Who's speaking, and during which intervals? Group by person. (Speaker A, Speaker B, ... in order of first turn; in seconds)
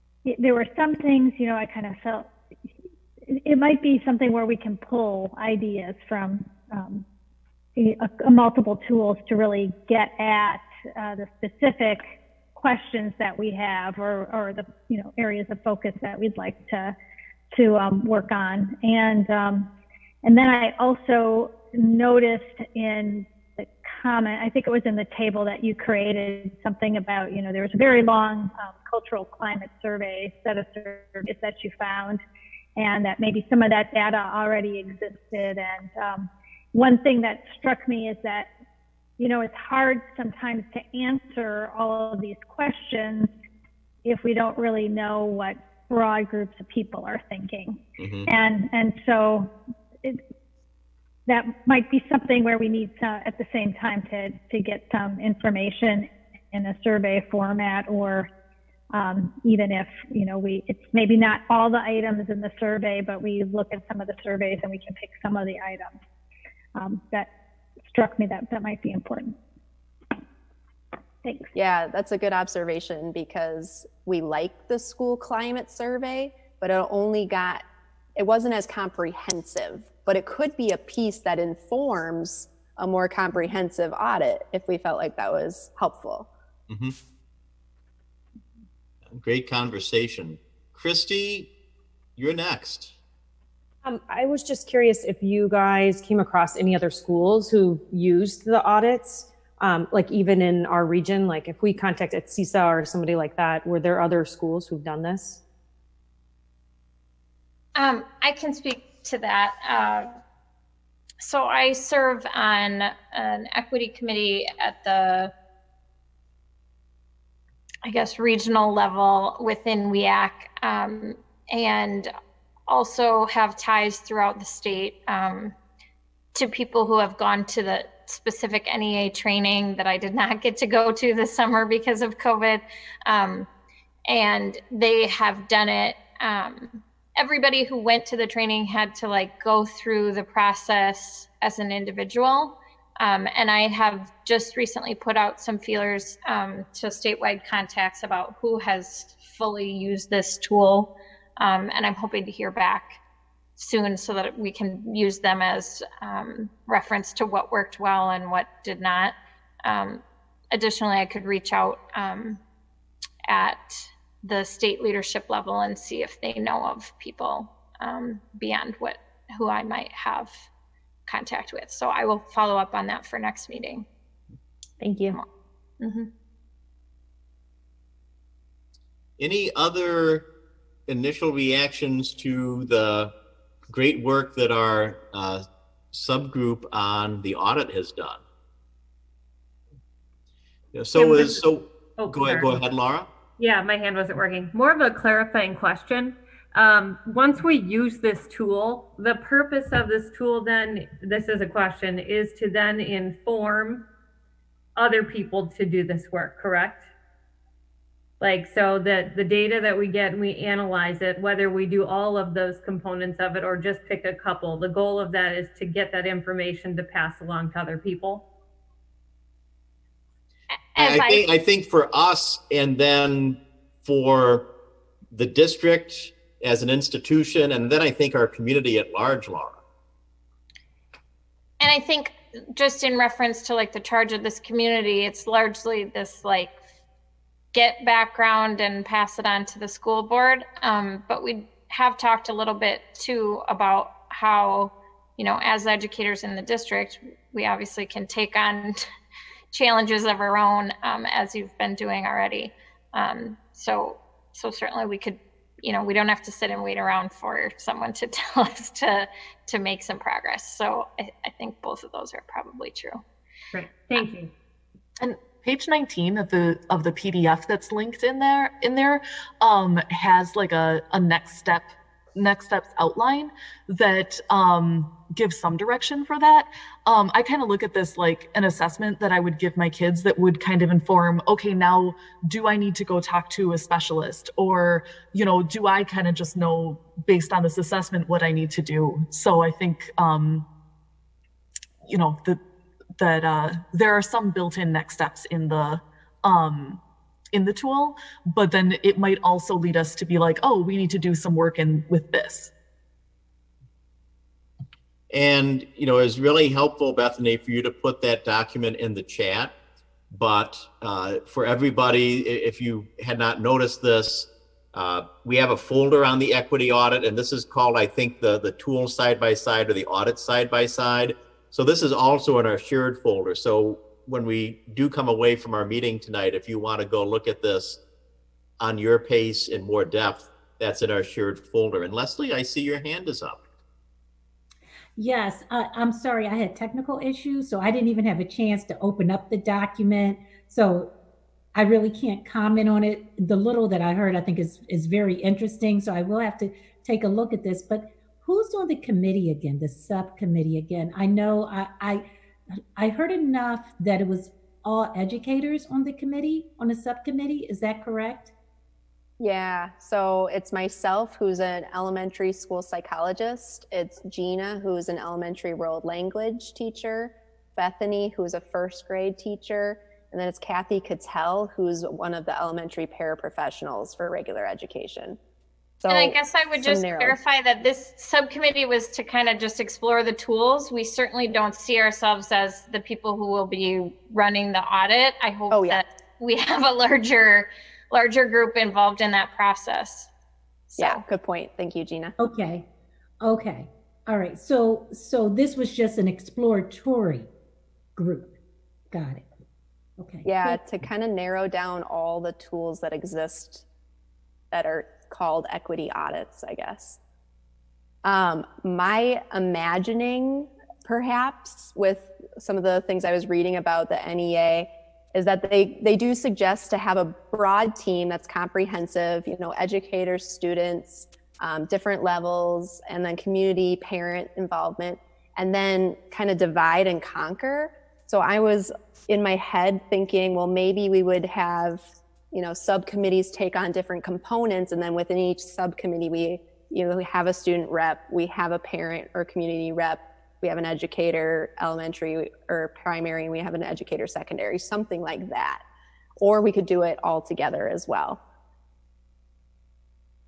Speaker A: 0.2-2.3, 3.3-7.0, 7.8-12.0, 12.6-16.9, 17.5-19.7, 20.2-32.2, 32.8-38.5, 39.2-43.3, 44.0-49.5, 51.3-58.3, 58.9-65.9, 66.7-67.3, 67.9-69.3, 71.2-71.5
Speaker B: 48.0-48.3, 86.7-86.9, 89.0-91.5, 92.2-93.0, 179.2-180.2, 180.9-183.1, 183.7-188.2, 190.7-193.1, 220.8-224.5, 225.1-229.6, 305.1-309.5, 310.1-327.8, 328.6-333.4
Speaker C: 71.5-77.6, 78.2-86.3, 359.2-375.2, 375.8-377.2, 385.5-385.8, 390.7-392.1, 400.2-403.6, 404.5-407.0, 408.0-445.6, 446.2-448.2
Speaker D: 93.8-105.4, 174.8-175.2
Speaker E: 107.8-110.2, 111.2-115.3, 117.8-122.1, 122.7-125.5, 126.3-133.5, 134.1-153.0, 153.6-162.4, 163.3-163.6, 164.2-170.5, 171.1-173.8, 175.8-176.1, 220.7-221.2, 231.6-236.5, 237.5-248.8, 249.5-263.0, 375.9-390.1
Speaker F: 190.9-192.6, 193.4-203.8, 204.8-206.9, 208.2-218.2, 263.5-264.3
Speaker G: 265.0-290.4, 291.9-292.4, 293.0-296.8, 297.3-302.5
Speaker H: 335.0-340.9, 341.5-352.1, 352.8-358.3, 392.2-392.6, 393.2-397.3, 397.9-398.3, 398.9-399.2, 400.0-400.6